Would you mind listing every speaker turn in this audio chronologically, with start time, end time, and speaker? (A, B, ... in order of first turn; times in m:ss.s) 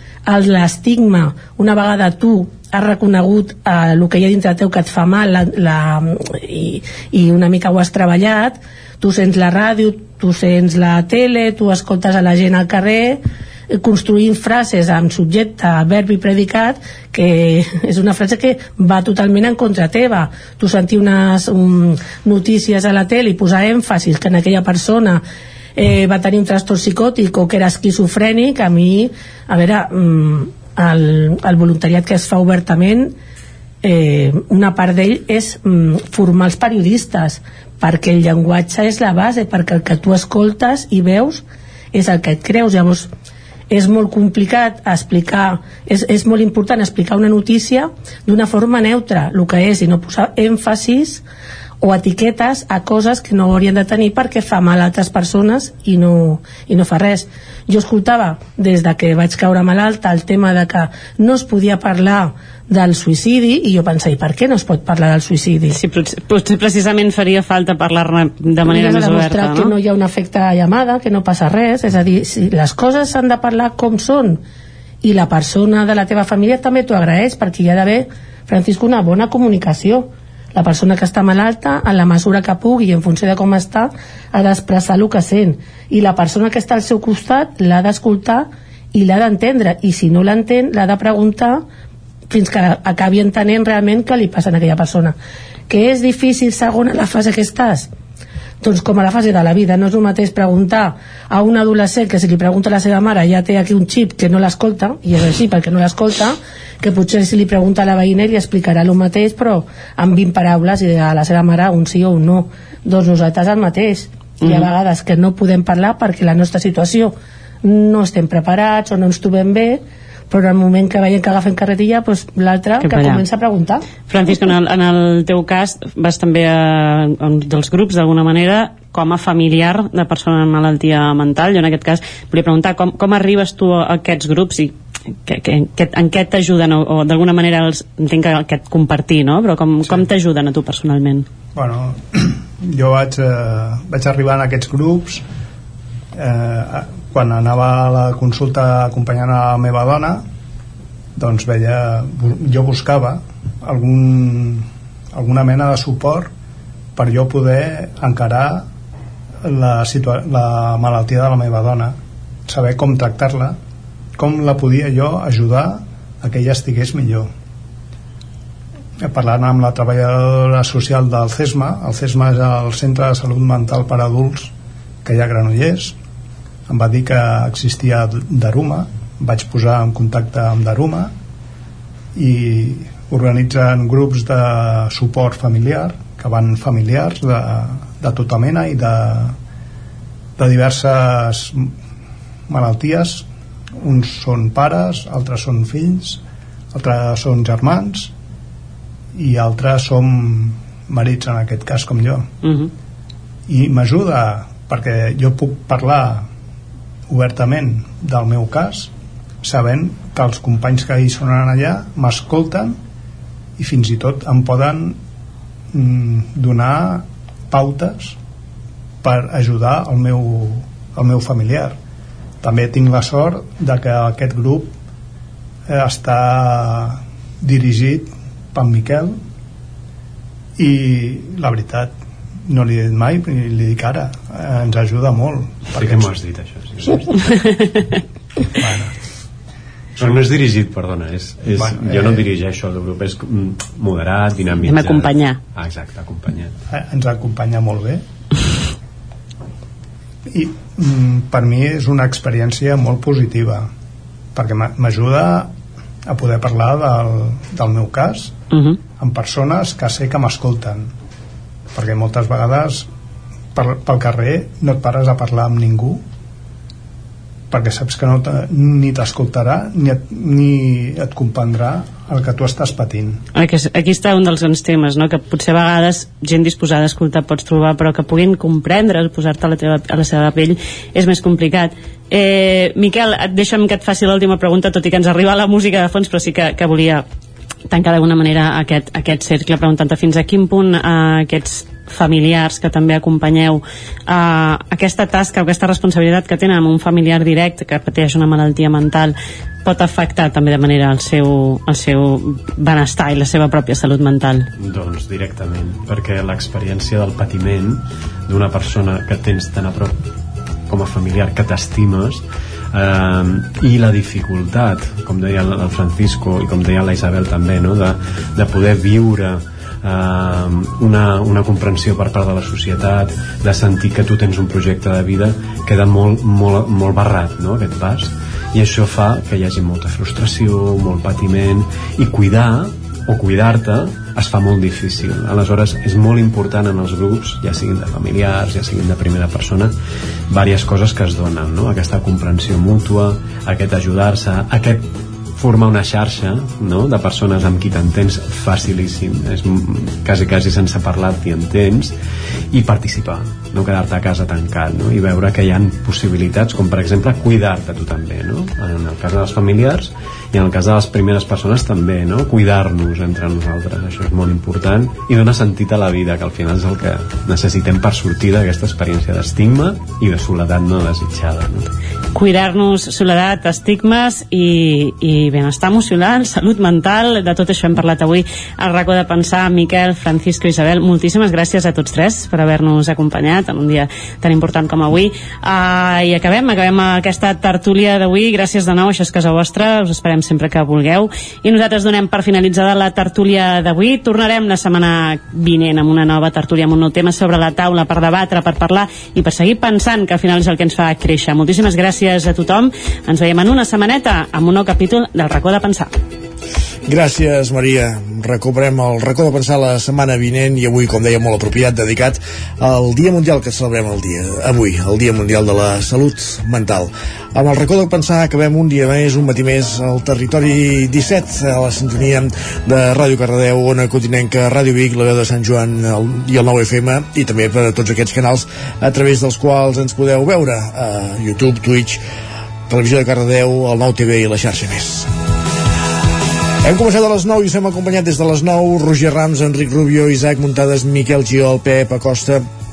0:00.3-0:25.2 A
0:25.8-0:33.1 A
0:33.8-0:43.1 A
0:43.7-0:51.2 A
0:51.8-1:05.7 A
1:05.7-1:09.7 B
1:08.7-1:14.4 A
1:15.0-1:31.6 A
1:32.3-1:35.2 A
1:35.7-1:37.9 A
1:38.6-2:03.9 A
1:54.4-1:54.7 B
2:02.8-2:03.2 B
2:04.0-2:14.7 B
2:15.2-2:21.2 B
2:21.5-2:25.2 C
2:26.1-2:30.2 C
2:31.2-2:36.3 C
2:37.0-2:38.6 C
2:39.4-2:42.0 C
2:42.5-2:43.6 C
2:44.2-2:47.3 C
2:49.0-2:54.5 C
2:55.0-2:55.9 C
2:56.7-3:01.1 C
3:02.2-3:09.4 C
3:10.4-3:11.7 C
3:12.5-3:13.2 C
3:13.8-3:16.2 C
3:16.7-3:18.1 C
3:19.1-3:22.3 C
3:22.4-3:22.7 B
3:23.5-3:26.3 C
3:27.1-3:28.9 C
3:29.4-3:32.8 C
3:33.6-3:35.0 C
3:35.7-3:38.2 C
3:39.0-3:41.8 C
3:42.4-3:44.7 C
3:45.7-3:49.2 C
3:50.6-3:51.9 C
3:52.4-3:56.1 C
3:55.7-3:57.1 D
3:57.4-3:57.8 B
3:58.6-3:58.9 C
4:00.0-4:06.5 D
4:01.5-4:02.2 C
4:04.6-4:05.4 B
4:06.7-4:08.0 C
4:10.3-4:13.7 C
4:14.3-4:15.5 C
4:16.0-4:18.4 C
4:18.5-4:18.8 B
4:19.0-4:20.9 C
4:21.7-4:22.9 C
4:23.5-4:26.0 C
4:27.5-4:33.2 C
4:33.3-4:47.0 B
4:47.7-5:04.5 B
5:04.6-5:10.0 D
5:10.7-5:39.7 D
5:40.3-5:51.9 D
5:52.5-6:11.7 D
6:12.1-6:45.9 B
6:46.9-7:12.0 E
7:12.7-7:15.1 E
7:16.6-7:22.4 E